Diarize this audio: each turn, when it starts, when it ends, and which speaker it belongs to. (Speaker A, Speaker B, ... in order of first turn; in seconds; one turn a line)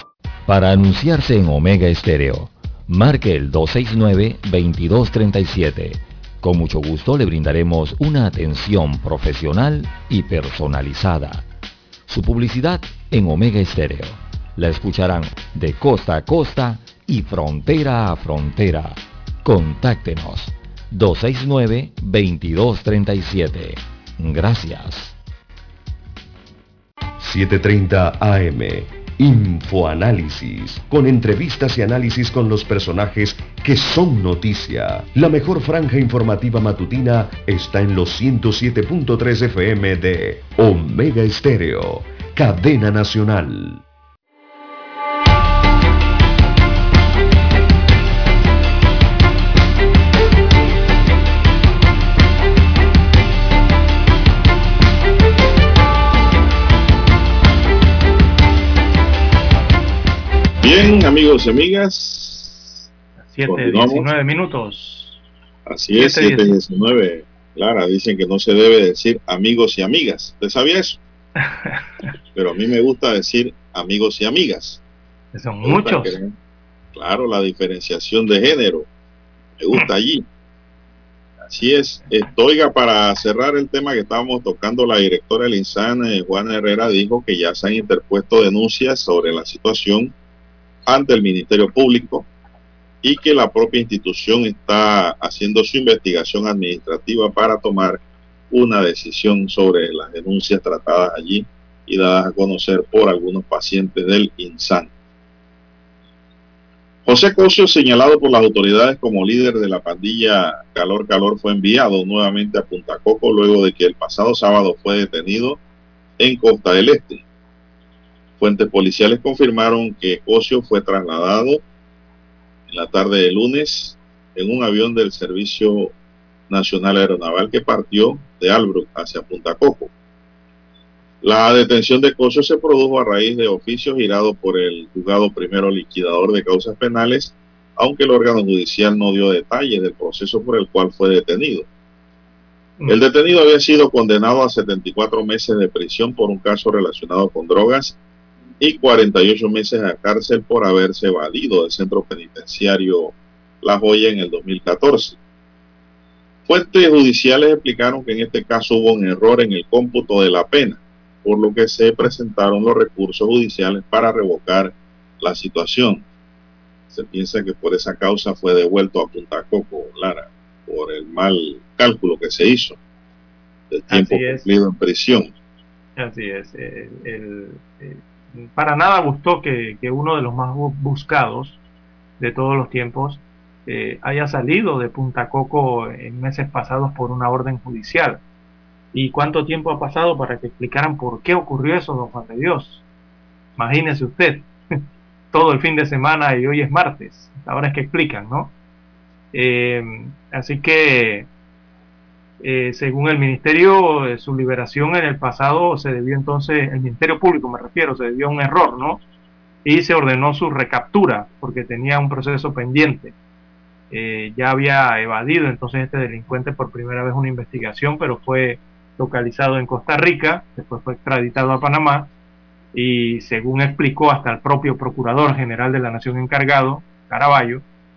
Speaker A: 0.5-11.4
Speaker A: 12.1-25.1
Speaker B: 27.2-43.8
Speaker C: 60.6-62.9
Speaker D: 63.2-65.2
Speaker C: 63.5-64.1
Speaker C: 65.7-71.0
Speaker D: 66.0-66.5
Speaker D: 71.4-71.9
Speaker C: 72.3-74.8
Speaker D: 75.3-76.2
Speaker C: 75.6-76.3
Speaker C: 76.9-78.9
Speaker C: 79.6-80.3
Speaker C: 81.4-90.1
Speaker C: 90.9-92.3
Speaker C: 93.0-104.9
Speaker C: 107.0-115.6
Speaker C: 116.2-117.2
Speaker C: 118.4-121.6
Speaker C: 122.7-125.9
Speaker C: 126.5-129.9
Speaker C: 131.2-141.7
Speaker C: 142.9-148.0
Speaker C: 148.6-155.2
Speaker C: 156.5-166.0
Speaker C: 166.9-172.8
Speaker C: 173.7-175.3
Speaker D: 173.9-174.5
Speaker D: 176.0-181.6
Speaker D: 182.2-188.2
Speaker D: 188.9-192.8
Speaker D: 193.6-194.5
Speaker D: 195.3-198.5
Speaker D: 199.3-201.3
Speaker D: 202.4-209.0
Speaker D: 209.6-213.2
Speaker D: 213.9-222.1
Speaker D: 222.7-227.6